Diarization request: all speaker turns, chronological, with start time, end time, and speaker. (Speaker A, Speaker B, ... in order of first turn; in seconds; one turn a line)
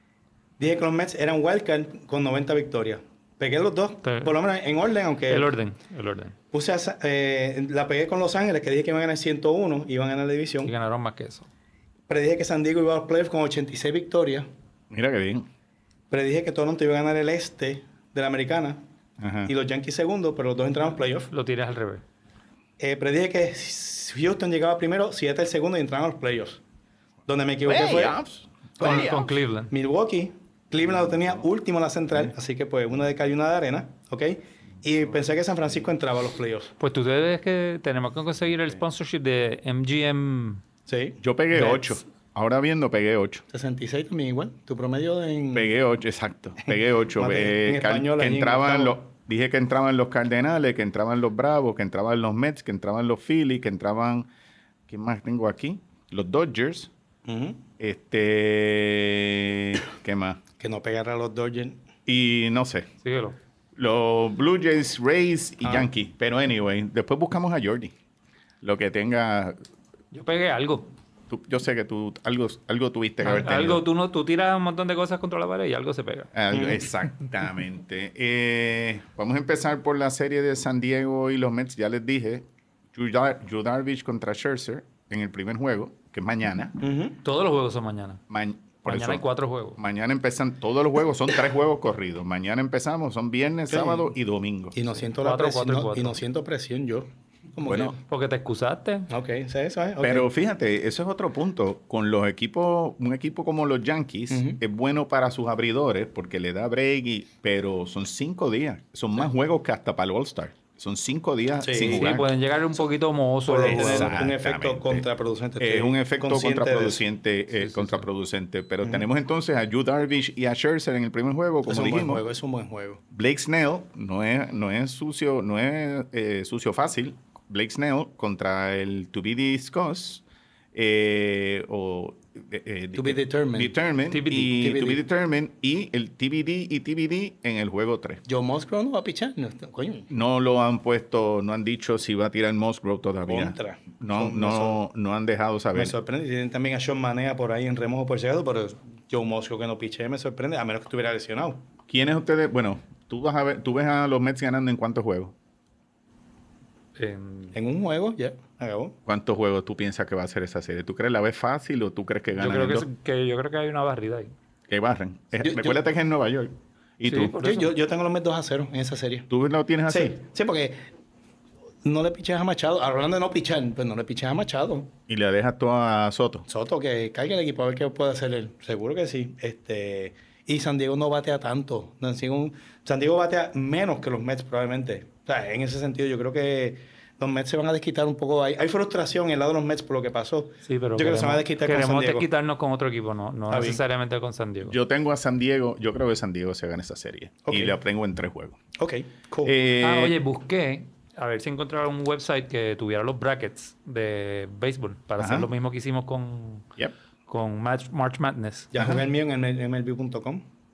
Speaker A: 0.6-5.5
Speaker B: 4.0-4.3
Speaker B: 5.3-6.3
Speaker A: 6.5-10.7
Speaker B: 10.6-11.5
Speaker A: 12.1-14.5
Speaker C: 14.9-15.5
Speaker A: 16.1-18.8
Speaker C: 19.2-19.5
Speaker A: 19.4-21.3
Speaker B: 21.3-22.0
Speaker A: 22.8-26.6
Speaker A: 27.3-28.2
Speaker C: 27.6-29.3
Speaker A: 28.8-29.2
Speaker B: 28.8-29.7
Speaker A: 29.7-36.7
Speaker B: 36.8-40.6
Speaker A: 40.9-41.8
Speaker C: 41.2-43.4
Speaker A: 43.5-45.7
Speaker C: 45.5-54.3
Speaker A: 46.7-49.0
Speaker C: 54.9-56.9
Speaker A: 57.2-57.6
Speaker C: 57.8-60.4
Speaker A: 60.6-61.8
Speaker C: 62.0-62.9
Speaker B: 63.0-63.4
Speaker C: 63.8-67.9
Speaker A: 65.6-65.9
Speaker C: 68.6-69.5
Speaker B: 70.1-70.9
Speaker C: 71.3-73.8
Speaker B: 73.2-76.3
Speaker C: 76.3-86.8
Speaker A: 76.5-76.8
Speaker A: 86.8-87.2
Speaker B: 87.2-88.2
Speaker C: 88.3-89.2
Speaker B: 88.8-89.8
Speaker C: 89.8-94.8
Speaker A: 93.7-94.1
Speaker A: 94.7-98.0
Speaker B: 95.2-96.2
Speaker C: 97.7-98.0
Speaker B: 98.0-99.1
Speaker A: 99.1-100.3
Speaker C: 100.0-112.3
Speaker A: 104.3-104.6
Speaker A: 111.6-112.1
Speaker B: 111.9-114.2
Speaker A: 113.5-117.0
Speaker C: 113.7-115.0
Speaker C: 115.6-122.2
Speaker B: 117.5-118.1
Speaker A: 121.6-123.0
Speaker C: 123.1-130.2
Speaker C: 130.7-138.2
Speaker A: 132.9-133.7
Speaker B: 134.1-134.5
Speaker A: 134.5-135.0
Speaker A: 138.2-140.1
Speaker C: 140.1-145.9
Speaker A: 143.2-144.8
Speaker A: 145.7-151.6
Speaker C: 151.9-155.3
Speaker B: 156.9-157.6
Speaker A: 157.5-158.9
Speaker C: 159.1-162.8
Speaker B: 162.4-164.3
Speaker C: 164.7-167.3
Speaker A: 165.4-165.8
Speaker B: 167.0-167.7
Speaker A: 167.3-169.3
Speaker C: 169.3-170.1
Speaker A: 169.9-170.8
Speaker A: 171.8-174.9
Speaker C: 175.1-176.4
Speaker A: 176.5-192.2
Speaker B: 190.7-194.8
Speaker A: 193.5-193.8
Speaker C: 194.6-198.6
Speaker A: 197.4-197.8
Speaker A: 198.8-199.5
Speaker C: 199.4-200.2
Speaker B: 199.8-206.7
Speaker C: 205.2-205.5
Speaker B: 207.3-208.7
Speaker A: 208.7-210.4